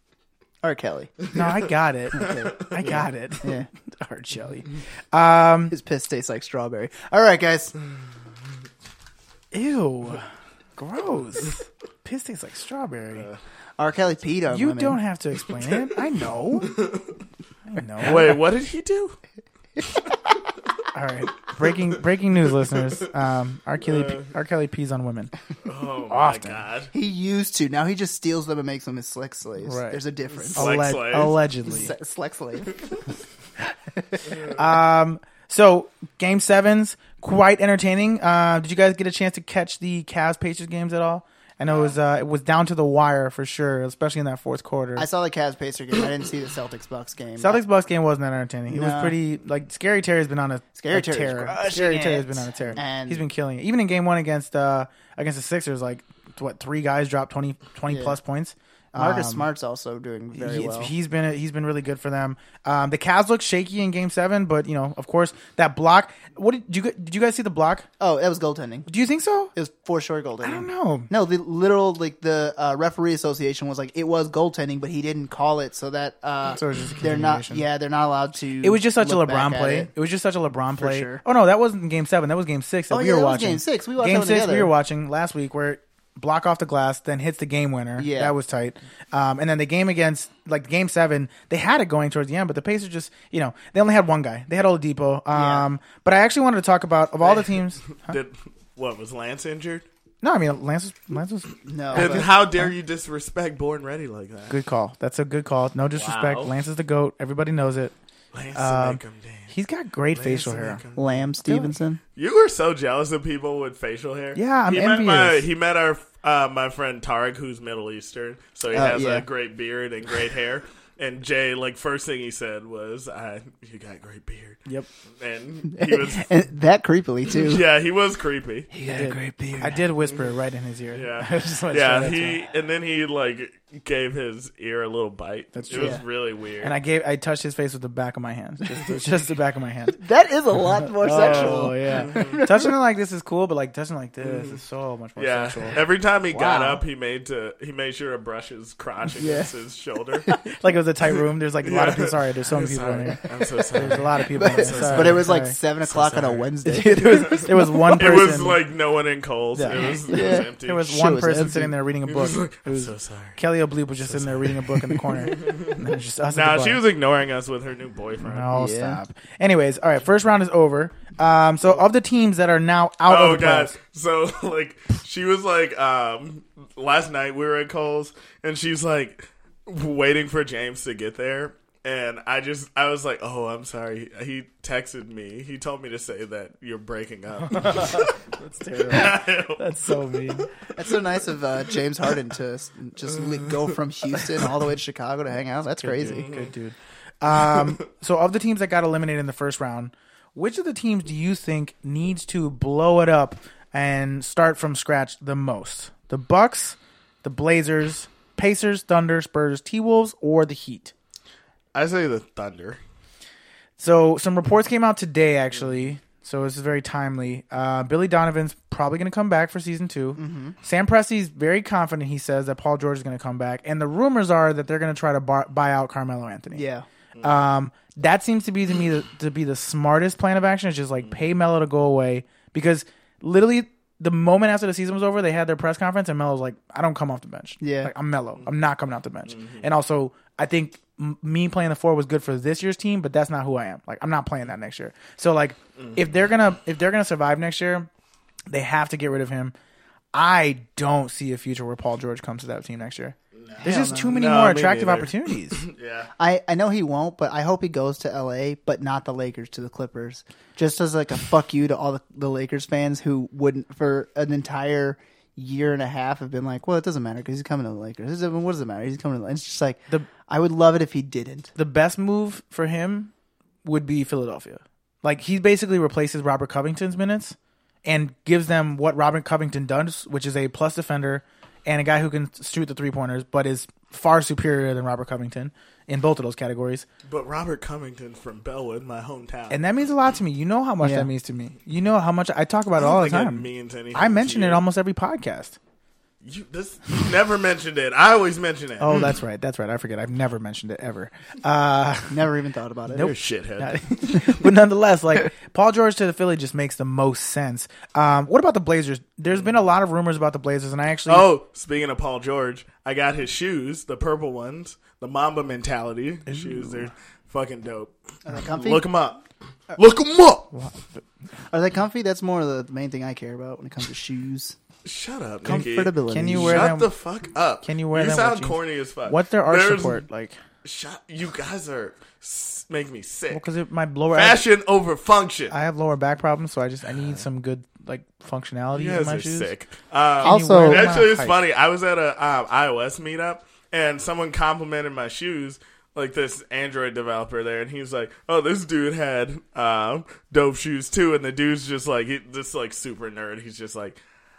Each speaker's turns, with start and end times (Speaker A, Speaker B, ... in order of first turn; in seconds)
Speaker A: 0.6-1.3, 2.2-3.7, 5.7-7.7, 13.8-15.0, 26.9-30.9, 31.6-32.8, 45.0-47.6, 48.7-49.2, 50.8-53.2, 57.9-58.2, 58.9-60.9, 68.0-68.9, 69.5-79.9, 80.7-81.2, 82.9-84.7, 88.0-88.3, 95.3-95.7, 101.7-102.3, 110.9-112.0, 118.7-119.3, 125.7-127.6, 128.7-129.8, 135.7-136.0, 139.9-142.7, 146.3-146.8, 149.1-149.5, 150.2-150.5, 154.3-157.9, 159.7-161.7, 168.5-169.0, 190.7-196.2, 220.2-220.6, 226.5-226.9, 237.6-237.9, 253.6-254.2, 256.2-271.5, 290.8-291.1, 302.1-303.1, 318.2-318.8, 321.5-324.6, 325.4-326.7, 340.2-340.9
Speaker B: 1.3-5.7, 9.5-13.3, 14.5-16.8, 17.7-18.4, 20.9-25.3, 26.1-26.6, 29.6-31.9, 34.4-45.1, 47.4-59.5, 60.3-67.9, 68.9-69.5, 70.4-71.1, 76.6-77.6, 78.6-98.1, 100.2-102.7, 104.5-107.9, 108.5-110.8, 114.3-115.4, 128.9-132.4, 135.5-136.0, 136.6-140.0, 140.9-145.8, 150.6-153.2, 153.7-155.6, 156.7-158.6, 159.5-166.8, 168.2-173.7, 187.4-190.5, 195.8-210.9, 213.8-226.7, 227.2-247.9, 248.5-249.5, 250.1-255.6, 271.5-273.1, 273.6-286.9, 289.5-295.6, 298.8-302.2, 302.9-311.3, 316.3-316.9, 320.5-321.0, 326.1-326.9, 327.6-330.4, 333.3-334.4, 335.5-339.5, 340.2-341.4
Speaker C: 2.1-3.0, 16.6-17.1, 18.0-19.2, 23.8-24.3, 25.6-26.9, 30.5-31.4, 41.7-41.9, 97.2-99.8, 101.9-104.5, 105.9-106.5, 108.3-109.5, 110.1-124.6, 125.2-126.3, 127.3-128.7, 130.9-136.7, 141.1-142.4, 144.2-144.6, 145.2-150.3, 151.6-160.9, 162.1-163.4, 164.0-168.5, 173.1-188.2, 188.8-190.8, 191.7-192.1, 193.2-193.7, 196.0-196.5, 197.4-197.7, 211.7-212.8, 215.5-215.8, 239.3-239.6, 253.3-256.1, 287.0-289.6, 292.8-294.6, 296.2-299.2, 303.0-304.4, 311.1-319.2, 319.7-320.5, 324.8-330.0, 330.6-333.4, 334.1-335.5, 338.7-354.0